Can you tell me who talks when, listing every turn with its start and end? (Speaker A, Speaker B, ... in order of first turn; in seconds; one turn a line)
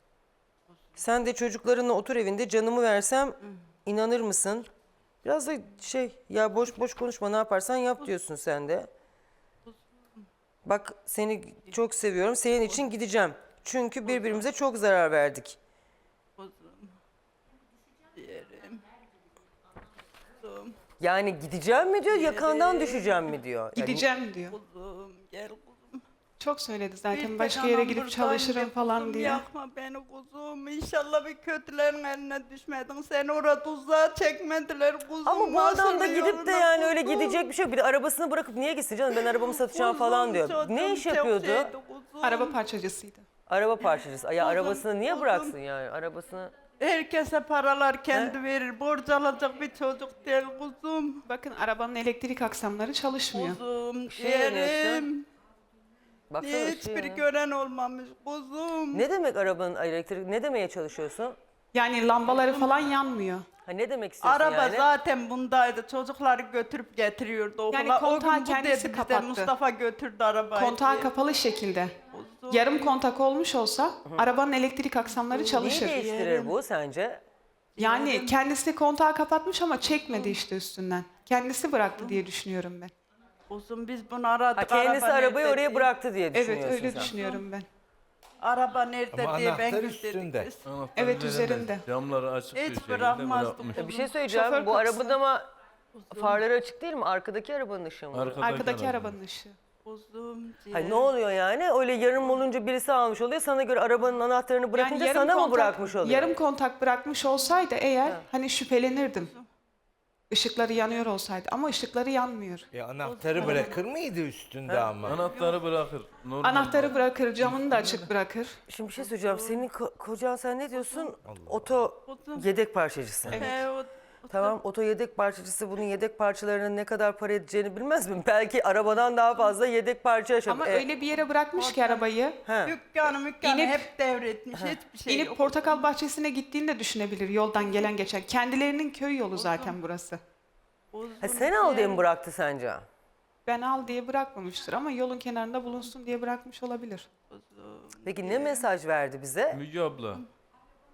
Speaker A: 1.0-4.7
Speaker A: 5.2-8.9
Speaker A: 10.7-15.6
Speaker B: 16.4-17.0
Speaker B: 18.1-18.9
Speaker B: 20.4-20.8
Speaker A: 21.0-24.1
Speaker B: 22.1-23.4
Speaker C: 23.8-24.6
Speaker B: 24.5-26.0
Speaker C: 26.4-29.4
Speaker B: 27.1-37.5
Speaker A: 35.2-41.7
Speaker B: 39.5-42.6
Speaker C: 42.2-43.2
Speaker A: 43.5-46.5
Speaker B: 44.4-45.5
Speaker B: 46.8-51.3
Speaker A: 48.1-48.4
Speaker C: 51.3-53.6
Speaker B: 53.3-55.3
Speaker A: 54.1-55.1
Speaker A: 56.3-57.3
Speaker B: 56.4-59.0
Speaker A: 58.9-61.4
Speaker C: 61.7-63.5
Speaker B: 62.4-62.8
Speaker A: 63.6-64.9
Speaker B: 64.2-71.1
Speaker C: 67.7-69.5
Speaker C: 70.5-72.0
Speaker B: 72.1-72.9
Speaker C: 72.5-76.0
Speaker B: 75.1-76.5
Speaker A: 75.6-77.2
Speaker B: 77.8-78.4
Speaker C: 77.8-82.9
Speaker B: 80.0-80.4
Speaker B: 82.0-82.2
Speaker B: 83.5-85.9
Speaker A: 84.6-87.1
Speaker C: 86.3-87.7
Speaker B: 87.0-87.4
Speaker B: 88.4-90.7
Speaker D: 89.1-90.5
Speaker E: 90.6-93.9
Speaker C: 91.0-91.8
Speaker B: 92.5-94.1
Speaker A: 93.8-95.5
Speaker C: 94.3-95.2
Speaker B: 96.0-96.4
Speaker A: 96.1-98.4
Speaker E: 98.1-99.1
Speaker C: 98.4-99.6
Speaker B: 99.8-101.1
Speaker A: 100.7-106.3
Speaker C: 104.8-109.3
Speaker B: 109.1-109.5
Speaker C: 110.3-112.7
Speaker D: 112.7-115.3
Speaker B: 113.0-113.8
Speaker C: 113.4-113.7
Speaker A: 114.7-114.9
Speaker E: 115.0-118.1
Speaker B: 115.1-115.6
Speaker C: 116.4-118.6
Speaker A: 118.7-123.6
Speaker B: 119.0-119.7
Speaker D: 121.2-121.8
Speaker B: 122.0-122.5
Speaker B: 123.3-124.6
Speaker A: 124.3-130.8
Speaker C: 130.5-132.4
Speaker B: 131.5-132.1
Speaker A: 132.4-132.8
Speaker B: 132.6-135.9
Speaker C: 133.4-133.9
Speaker C: 135.1-140.2
Speaker B: 139.3-139.8
Speaker B: 140.9-142.1
Speaker A: 141.2-142.8
Speaker C: 143.5-147.1
Speaker B: 147.3-148.7
Speaker A: 148.1-149.6
Speaker E: 149.5-150.2